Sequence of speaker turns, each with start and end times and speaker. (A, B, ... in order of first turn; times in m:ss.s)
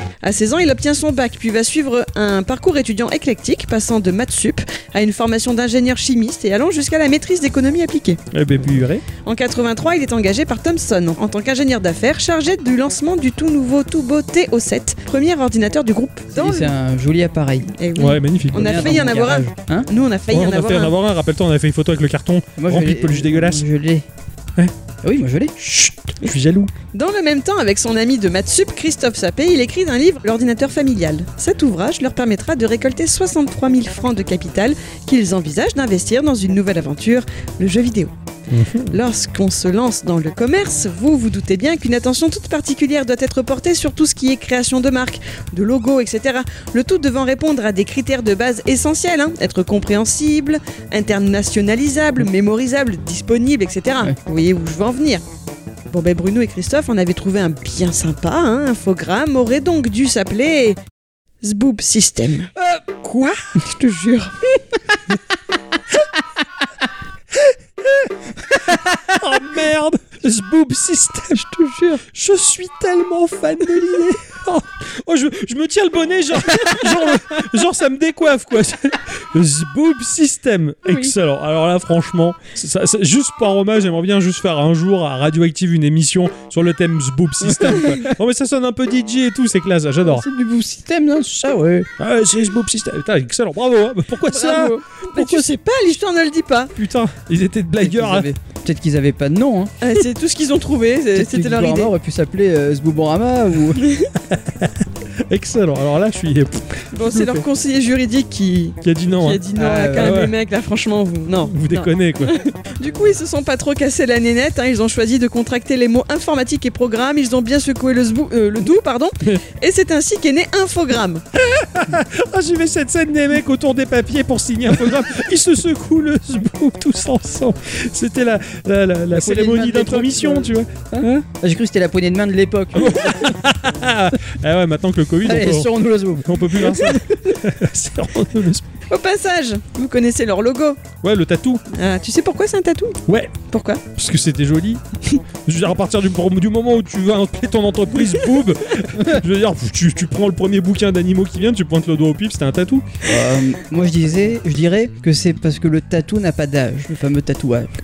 0:00.2-0:08.2 A
0:08.3-0:09.0 B
0:09.2-0:16.7 A
0:16.3-0:17.7 C
0:17.7-0:20.9 A
0:18.0-0:18.7 B
0:18.5-0:19.9 C
0:20.3-0:23.6 B
0:22.6-0:24.0 C
0:25.0-0:25.5 C
0:25.6-0:26.7 B
0:26.9-0:38.1 A
0:38.5-0:38.9 B
0:38.9-0:55.2 A
0:55.9-1:00.8 A
1:01.4-1:04.8 A
1:07.8-1:11.4 B
1:11.4-1:12.0 A
1:12.1-1:30.3 B
1:20.9-1:21.1 A
1:27.4-1:27.9 C
1:30.0-1:31.9 C
1:32.0-1:35.4 B
1:34.3-1:36.7 A
1:36.8-1:38.3 B
1:37.8-1:39.7 C
1:39.8-1:41.9 A
1:41.1-1:43.9 C
1:43.8-1:44.1 A
1:44.2-1:44.8 B
1:45.3-1:47.4 B
1:46.9-2:01.2 A
1:48.8-1:49.4 B
1:49.6-1:50.2 C
1:50.0-1:50.3 B
1:51.4-1:52.4 B
2:01.4-2:11.2 B
2:09.1-2:13.3 C
2:12.7-2:15.7 B
2:15.2-2:16.8 C
2:16.2-2:18.7 B
2:16.6-2:17.4 A
2:18.9-2:20.9 A
2:21.0-2:21.6 B
2:21.7-2:23.8 A
2:23.1-2:23.4 B
2:23.9-2:24.8 B
2:25.4-2:32.8 B
2:33.0-2:37.7 C